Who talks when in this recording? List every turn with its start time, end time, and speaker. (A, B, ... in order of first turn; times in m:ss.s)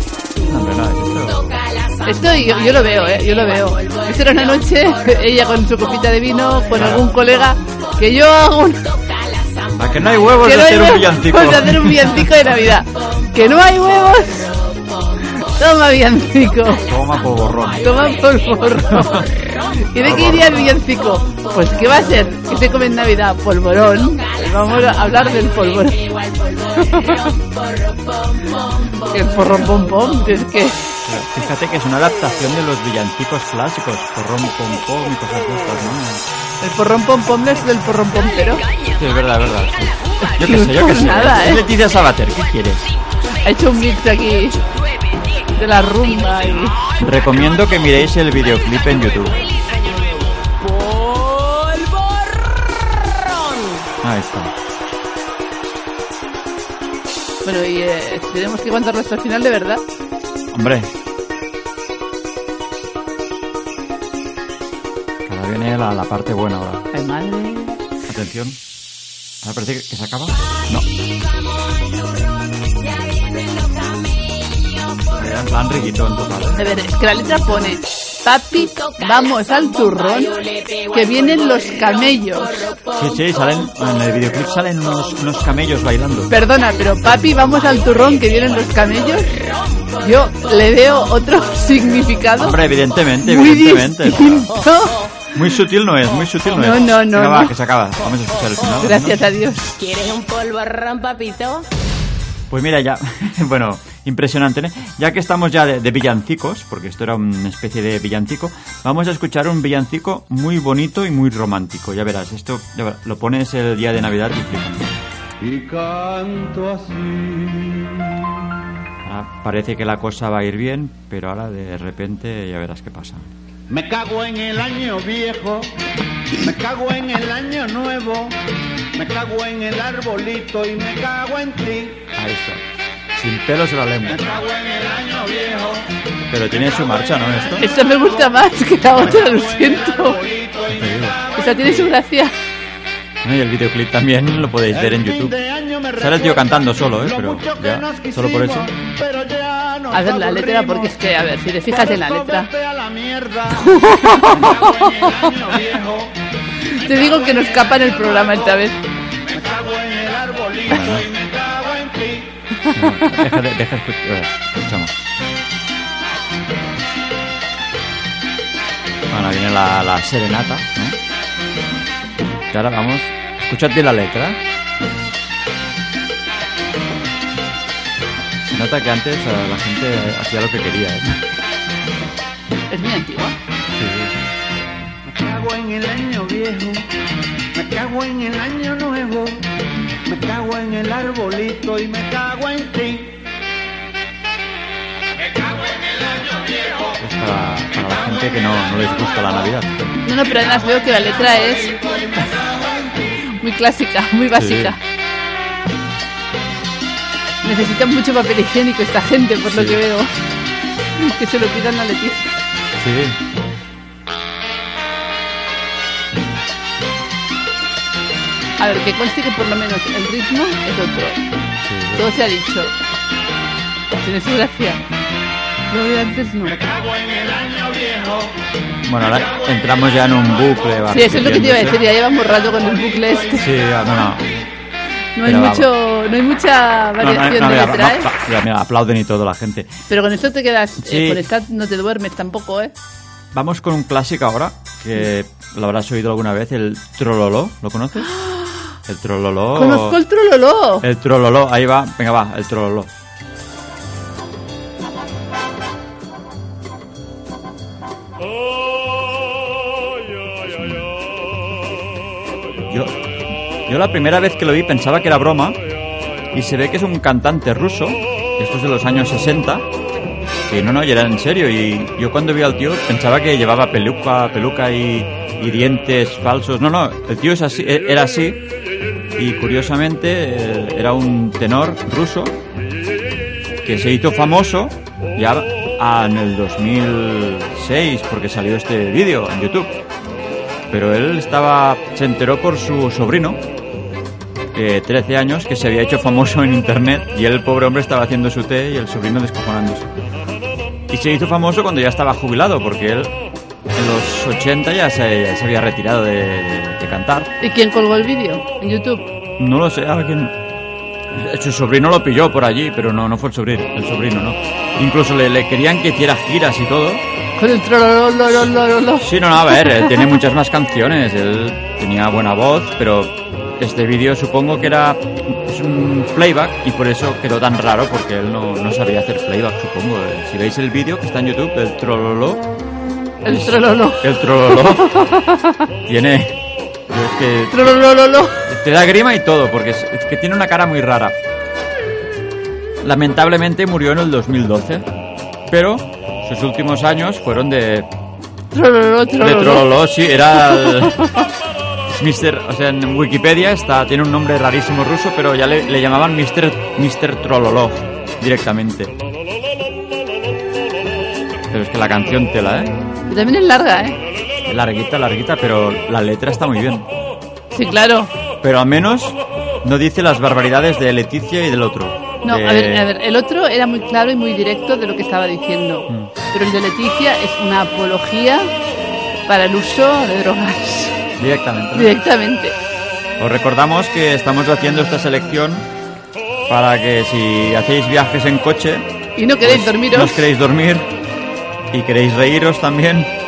0:00.4-0:01.6 A
0:01.2-0:11.5 B
0:02.1-0:08.8 C
0:06.7-0:07.0 A
0:09.8-0:12.3 A
0:10.4-0:14.5 C
0:12.3-0:23.1 B
0:15.3-0:16.8 C
0:16.8-0:18.0 A
0:17.8-0:19.2 C
0:18.9-0:19.4 A
0:19.9-0:26.0 C
0:20.0-0:20.8 A
0:23.9-0:30.6 B
0:26.9-0:27.3 C
0:29.1-0:30.8 C
0:31.1-0:36.3 A
0:36.6-0:38.6 C
0:38.2-0:47.7 B
0:39.0-0:42.9 A
0:40.2-0:41.6 C
0:43.4-0:44.6 C
0:45.6-0:46.8 C
0:47.0-0:49.4 A
0:48.8-0:53.9 B
0:54.0-0:54.5 A
0:57.4-0:59.8 C
1:00.5-1:00.9 A
1:05.2-1:06.9 A
1:06.9-1:07.8 C
1:08.1-1:08.6 A
1:09.4-1:10.9 A
1:10.4-1:15.3 B
1:15.1-1:16.6 A
1:16.6-1:20.3 C
1:18.6-1:23.7 B
1:20.9-1:22.7 C
1:23.0-1:26.3 A
1:26.3-1:29.4 C
1:26.8-1:32.1 B
1:30.0-1:32.6 C
1:32.4-1:34.5 A
1:33.2-1:35.0 C
1:34.6-1:35.3 B
1:35.3-1:39.2 A
1:36.5-1:37.6 C
1:38.2-1:38.9 B
1:38.8-1:39.8 C
1:39.8-1:41.7 B
1:42.5-1:54.9 A
1:55.4-1:58.3 D
1:59.0-2:03.3 A
2:03.7-2:05.8 D
2:06.4-2:08.4 D
2:09.0-2:12.0 D
2:12.2-2:12.6 A
2:13.2-2:14.2 A
2:14.0-2:15.9 D
2:16.3-2:17.7 A
2:16.5-2:22.0 D
2:17.6-2:20.2 C
2:20.7-2:21.2 A
2:21.4-2:22.3 C
2:23.2-2:25.4 A
2:24.7-2:38.7 D
2:26.0-2:28.7 A
2:29.9-2:32.5 C
2:33.5-2:34.7 C
2:36.7-2:38.8 C
2:39.3-2:42.4 D
2:40.7-2:41.1 A
2:42.7-2:44.9 A
2:49.1-2:51.0 A
2:52.5-2:54.4 A
2:58.4-3:01.3 A
3:02.7-3:03.4 C
3:03.7-3:04.1 A
3:05.0-3:06.9 D
3:07.5-3:09.4 D
3:10.0-3:13.2 D
3:17.0-3:19.8 A
3:20.0-3:22.4 C
3:23.3-3:24.8 C
3:24.4-3:24.8 A
3:27.4-3:30.1 C
3:29.5-3:29.8 A
3:31.0-3:32.3 C
3:32.8-3:33.2 A
3:38.6-3:41.2 C
3:41.6-3:42.1 A
3:42.0-3:42.7 C
3:44.0-3:44.8 C
3:45.7-3:46.6 C
3:46.4-3:48.4 D
3:48.8-3:51.8 A
3:50.9-3:53.5 C
3:52.1-3:53.8 D
3:53.4-3:54.3 A
3:55.2-3:58.1 C
3:55.2-3:55.7 A
3:57.0-3:59.8 A
3:59.9-4:02.7 C
4:00.8-4:01.3 A
4:03.3-4:08.1 A
4:08.2-4:08.5 C
4:08.9-4:10.0 A
4:09.5-4:10.9 C
4:10.8-4:12.9 A
4:20.4-4:20.9 A
4:22.7-4:23.1 A
4:23.7-4:25.6 A
4:26.3-4:29.7 A
4:30.5-4:38.4 A
4:39.2-4:42.4 A
4:43.6-4:49.7 A
4:50.7-4:53.4 A
4:54.5-4:59.9 A
5:00.9-5:03.1 A
5:03.7-5:07.3 A
5:07.4-5:09.1 C
5:09.4-5:10.4 A
5:11.1-5:17.0 A
5:17.4-5:20.0 C
5:19.0-5:32.5 A
5:33.2-5:35.6 C
5:33.2-5:35.1 A
5:35.9-5:37.8 A
5:37.5-5:38.5 C
5:38.4-5:41.2 A
5:42.8-5:44.9 A
5:45.5-5:47.9 A
5:48.5-5:49.8 C
5:49.2-5:51.1 A
5:50.4-5:51.1 C
5:51.9-5:58.9 A
6:01.5-6:02.7 A
6:03.1-6:04.0 C
6:04.4-6:06.9 A
6:07.5-6:08.1 C
6:08.4-6:12.9 A
6:12.2-6:18.5 C
6:19.3-6:21.0 C
6:21.2-6:22.0 A
6:21.7-6:22.6 C
6:23.2-6:25.7 A
6:26.5-6:28.9 A
6:29.2-6:30.3 C
6:29.4-6:30.9 A
6:31.7-6:33.1 A